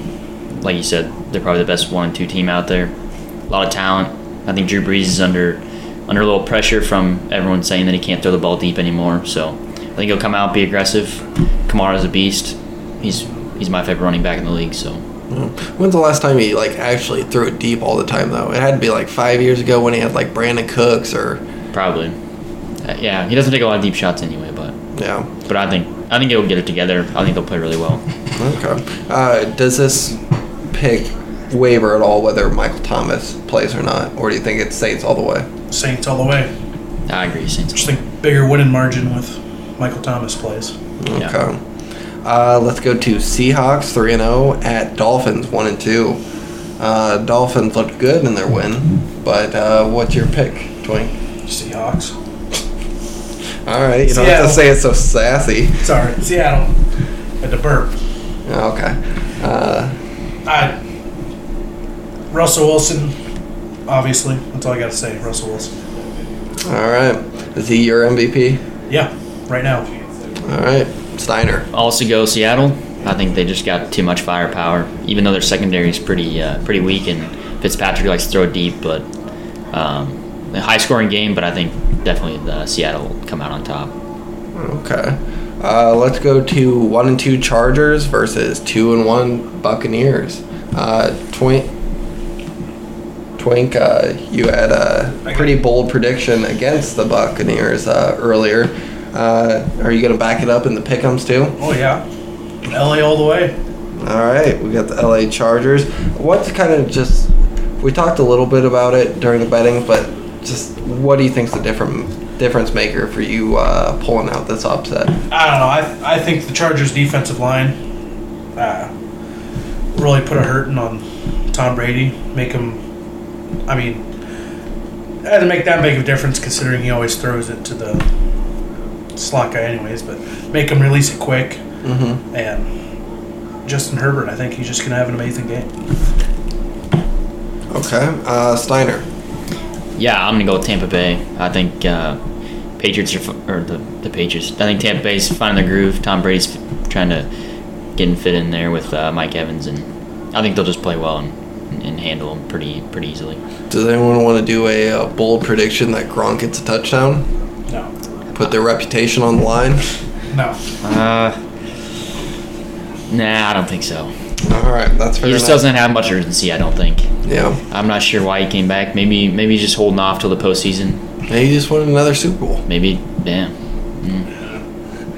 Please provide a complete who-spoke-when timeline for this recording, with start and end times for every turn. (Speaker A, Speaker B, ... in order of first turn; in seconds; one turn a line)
Speaker A: 0.5-2.9
Speaker A: 3.5-15.0
Speaker B: 15.3-21.4
Speaker A: 21.7-22.2
Speaker A: 22.8-24.7
Speaker B: 24.9-25.3
Speaker A: 25.4-28.0
Speaker B: 28.4-30.2
Speaker B: 30.7-35.5
Speaker C: 35.7-36.5
Speaker A: 37.1-38.0
Speaker C: 37.7-40.7
Speaker B: 41.0-41.6
Speaker B: 42.2-46.2
Speaker B: 46.8-51.1
Speaker C: 51.5-52.1
Speaker B: 53.6-55.8
Speaker C: 54.0-54.6
Speaker C: 55.8-56.7
Speaker C: 57.4-57.9
Speaker B: 58.5-59.9
Speaker C: 60.4-60.8
Speaker C: 62.3-63.1
Speaker C: 63.9-65.7
Speaker B: 66.6-68.6
Speaker C: 68.9-69.9
Speaker B: 70.4-71.7
Speaker A: 71.7-79.1
Speaker A: 79.7-83.9
Speaker B: 84.5-91.7
Speaker B: 93.4-101.6
Speaker C: 101.6-102.0
Speaker C: 102.7-103.5
Speaker B: 104.0-115.2
Speaker C: 115.3-117.8
Speaker C: 118.5-118.9
Speaker C: 119.9-122.8
Speaker C: 123.7-124.0
Speaker C: 125.2-128.0
Speaker C: 129.2-131.6
Speaker B: 131.8-132.2
Speaker C: 132.3-132.7
Speaker C: 133.6-135.7
Speaker B: 137.7-139.0
Speaker A: 139.9-142.2
Speaker A: 142.8-147.3
Speaker A: 148.0-153.4
Speaker B: 153.7-157.2
Speaker B: 158.3-159.8
Speaker C: 160.3-160.6
Speaker A: 160.8-161.4
Speaker A: 163.1-164.1
Speaker B: 164.4-165.6
Speaker A: 165.2-167.1
Speaker B: 167.2-167.6
Speaker A: 167.7-171.0
Speaker B: 171.3-172.6
Speaker A: 172.7-174.3